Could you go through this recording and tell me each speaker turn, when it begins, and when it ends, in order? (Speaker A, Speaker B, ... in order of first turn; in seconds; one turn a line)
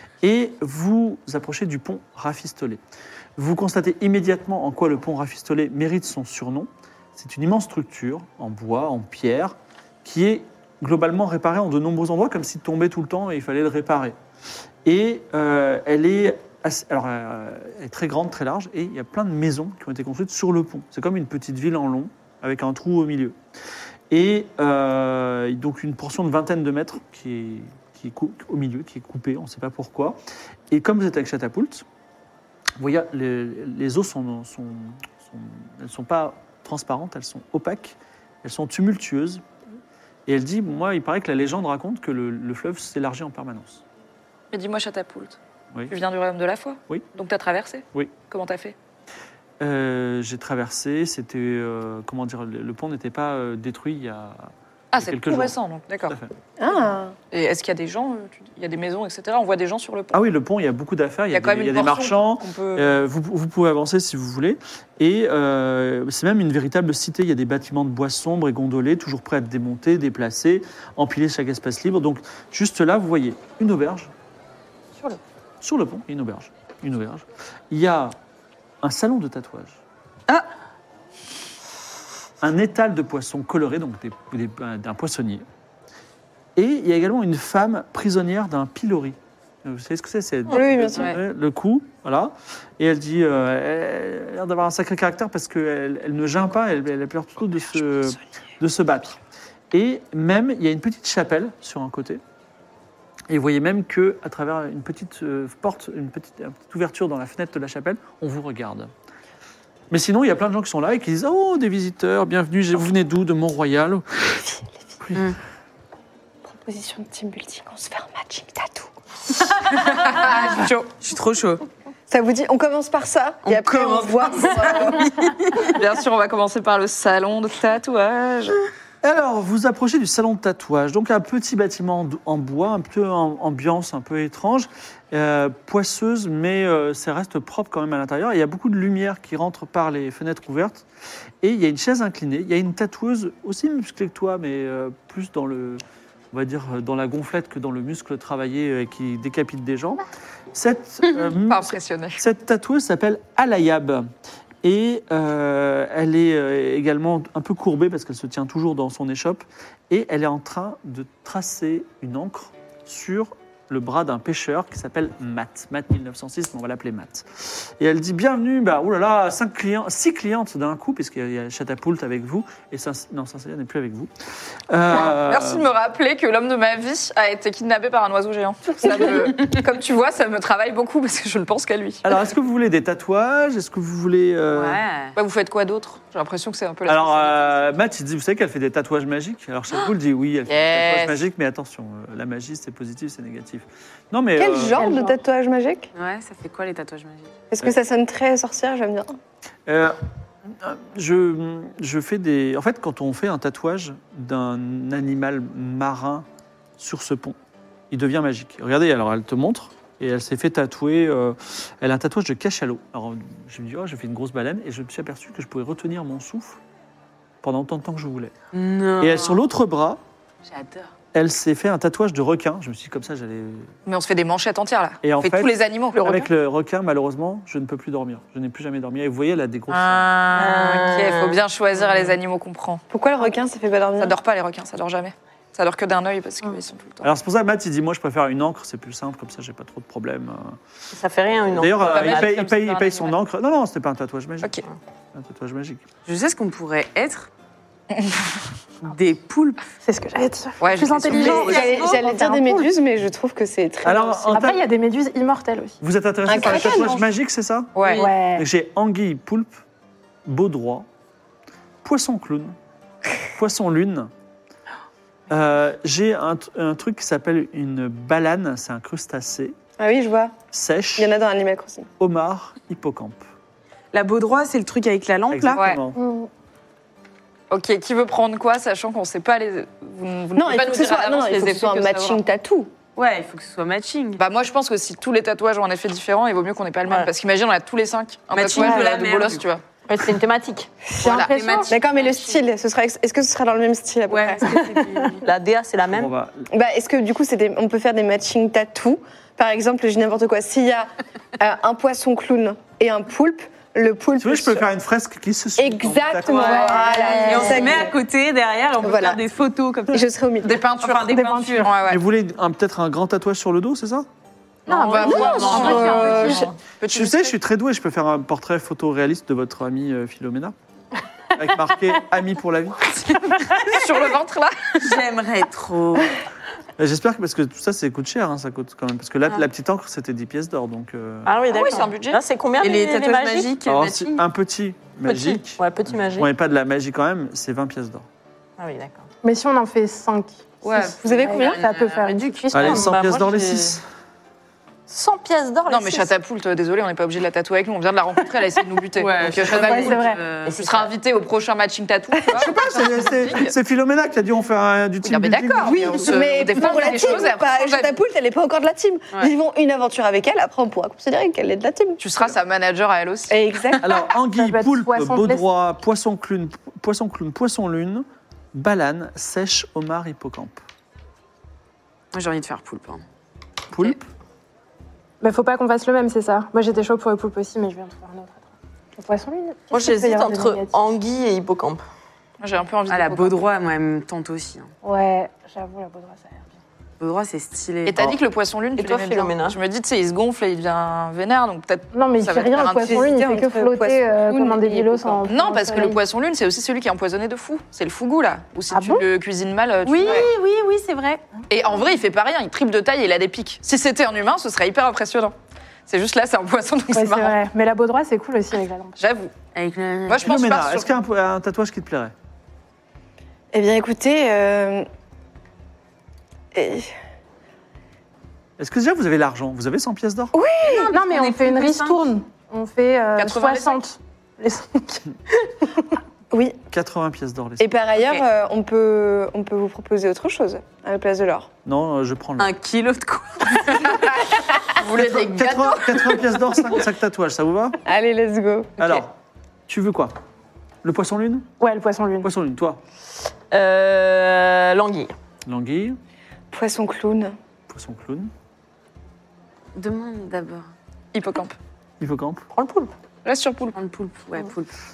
Speaker A: 0.2-2.8
Speaker A: 3.4-14.2
Speaker A: 14.8-23.4
Speaker A: 24.1-30.2
Speaker A: 30.7-31.8
Speaker A: 32.8-39.4
Speaker A: 40.3-43.8
Speaker B: 44.5-45.4
Speaker B: 45.9-48.7
Speaker A: 49.6-55.5
Speaker B: 54.9-56.1
Speaker A: 56.1-56.3
Speaker C: 56.6-57.1
Speaker B: 57.3-60.2
Speaker A: 60.1-74.1
Speaker B: 61.3-63.0
Speaker A: 75.6-78.2
Speaker A: 78.8-79.8
Speaker A: 82.4-85.4
Speaker A: 86.5-99.2
Speaker C: 90.5-91.2
Speaker A: 99.7-102.2
Speaker A: 103.3-108.9
Speaker A: 109.9-115.3
Speaker C: 116.5-118.9
Speaker B: 119.6-120.9
Speaker D: 121.0-121.6
Speaker C: 122.1-125.1
Speaker D: 123.4-125.8
Speaker B: 125.7-128.6
Speaker A: 129.0-140.8
Speaker A: 141.4-154.1
Speaker B: 151.4-152.2
Speaker A: 154.6-174.1
Speaker A: 174.7-175.7
Speaker B: 174.9-182.1
Speaker A: 182.0-184.8
Speaker D: 184.5-185.2
Speaker B: 185.1-187.8
Speaker A: 186.9-194.8
Speaker B: 190.5-191.2
Speaker C: 194.4-195.9
Speaker E: 194.8-195.2
Speaker D: 195.9-197.3
Speaker C: 197.5-199.2
Speaker A: 199.7-200.0
Speaker A: 200.5-206.2
Speaker A: 206.8-207.3
Speaker A: 207.9-216.6
Speaker A: 217.4-218.3
Speaker D: 218.5-219.4
Speaker A: 219.0-220.0
Speaker D: 220.4-220.9
Speaker A: 221.1-223.7
Speaker B: 223.8-226.3
Speaker A: 225.0-230.1
Speaker B: 229.7-232.8
Speaker F: 230.3-231.4
Speaker C: 232.9-234.2
Speaker B: 234.0-237.1
Speaker A: 237.0-240.6
Speaker F: 240.9-242.3
Speaker A: 241.5-244.6
Speaker B: 241.9-243.1
Speaker A: 245.1-245.8
Speaker D: 246.1-247.3
Speaker B: 247.9-248.3
Speaker D: 248.8-249.7
Speaker E: 249.8-252.7
Speaker B: 250.6-251.8
Speaker D: 251.1-252.1
Speaker C: 251.2-254.5
Speaker A: 253.8-254.6
Speaker E: 254.3-255.8
Speaker A: 255.8-259.6
Speaker C: 256.3-257.1
Speaker E: 256.3-256.9
Speaker B: 257.7-258.1
Speaker D: 257.8-258.1
Speaker E: 257.9-258.4
Speaker A: 260.2-260.9
Speaker A: 261.8-262.5
Speaker A: 263.3-264.1
Speaker A: 265.3-269.5
Speaker C: 269.8-270.3
Speaker A: 270.5-271.1
Speaker C: 271.0-271.9
Speaker A: 272.0-273.2
Speaker D: 273.9-275.6
Speaker A: 275.3-276.0
Speaker B: 275.6-275.8
Speaker E: 275.9-276.3
Speaker B: 277.5-282.2
Speaker C: 280.4-282.7
Speaker D: 282.9-284.2
Speaker B: 284.2-289.6
Speaker D: 288.3-289.4
Speaker F: 289.9-290.7
Speaker E: 291.0-291.7
Speaker B: 291.0-291.3
Speaker D: 291.1-292.4
Speaker C: 291.7-294.6
Speaker D: 294.1-295.3
Speaker F: 295.2-296.1
Speaker A: 295.9-296.5
Speaker C: 296.5-304.6
Speaker A: 304.2-306.9
Speaker C: 305.6-307.9
Speaker E: 306.4-307.4
Speaker D: 306.7-310.1
Speaker B: 307.1-307.4
Speaker C: 308.8-309.2
Speaker C: 309.9-310.6
Speaker B: 310.4-312.0
Speaker D: 310.8-311.7
Speaker E: 311.0-311.7
Speaker A: 311.9-314.1
Speaker E: 314.7-316.5
Speaker B: 314.7-317.3
Speaker C: 315.0-316.5
Speaker D: 315.1-316.3
Speaker A: 316.9-320.5
Speaker A: 321.3-323.1
Speaker B: 323.5-325.0
Speaker D: 324.8-326.1
Speaker A: 326.8-331.4
Speaker F: 331.2-333.5
Speaker B: 331.5-332.2
Speaker D: 332.6-334.2
Speaker A: 333.6-338.1
Speaker F: 335.1-336.3
Speaker F: 338.6-339.0
Speaker E: 339.2-342.9
Speaker C: 340.9-341.6
Speaker D: 341.2-343.7
Speaker A: 342.5-343.8
Speaker F: 343.1-343.3
Speaker E: 344.9-346.1
Speaker B: 345.7-353.5
Speaker D: 348.9-350.9
Speaker E: 349.4-350.2
Speaker A: 352.3-356.3
Speaker B: 355.0-358.0
Speaker C: 355.6-362.1
Speaker D: 356.6-357.2
Speaker B: 362.0-363.4
Speaker C: 363.3-364.1
Speaker A: 363.8-370.6
Speaker E: 364.3-365.4
Speaker D: 372.1-373.0
Speaker A: 373.7-374.0
Speaker E: 375.2-380.7
Speaker F: 379.7-381.8
Speaker B: 382.4-383.4
Speaker D: 382.9-384.7
Speaker E: 384.8-386.5
Speaker D: 387.0-388.1
Speaker B: 387.9-393.0
Speaker F: 388.8-389.6
Speaker E: 391.9-396.0
Speaker C: 392.8-395.3
Speaker B: 395.3-400.3
Speaker E: 398.7-399.1
Speaker D: 399.9-401.2
Speaker B: 401.5-405.3
Speaker B: 405.9-407.4
Speaker E: 406.9-409.0
Speaker B: 409.0-409.3
Speaker D: 409.5-410.3
Speaker B: 410.1-410.9
Speaker A: 410.2-412.1
Speaker C: 413.5-414.9
Speaker C: 416.5-416.9
Speaker A: 418.6-420.3
Speaker C: 420.3-420.9
Speaker D: 420.6-422.1
Speaker E: 420.9-425.0
Speaker B: 423.1-423.8
Speaker C: 426.3-426.6
Speaker A: 426.7-427.7
Speaker C: 427.6-431.5
Speaker A: 431.6-432.5
Speaker D: 432.4-434.1
Speaker B: 433.7-436.2
Speaker A: 434.9-437.8
Speaker C: 437.8-438.8
Speaker A: 438.8-439.1
Speaker A: 439.7-440.1
Speaker A: 440.8-441.5
Speaker E: 441.6-442.3
Speaker A: 442.2-442.8
Speaker F: 443.5-445.1
Speaker A: 445.4-446.0
Speaker C: 446.5-447.4
Speaker A: 447.7-448.3
Speaker D: 449.7-450.7
Speaker B: 451.1-451.5
Speaker A: 452.0-452.5
Speaker F: 452.5-452.9
Speaker B: 453.2-453.8
Speaker D: 453.7-454.7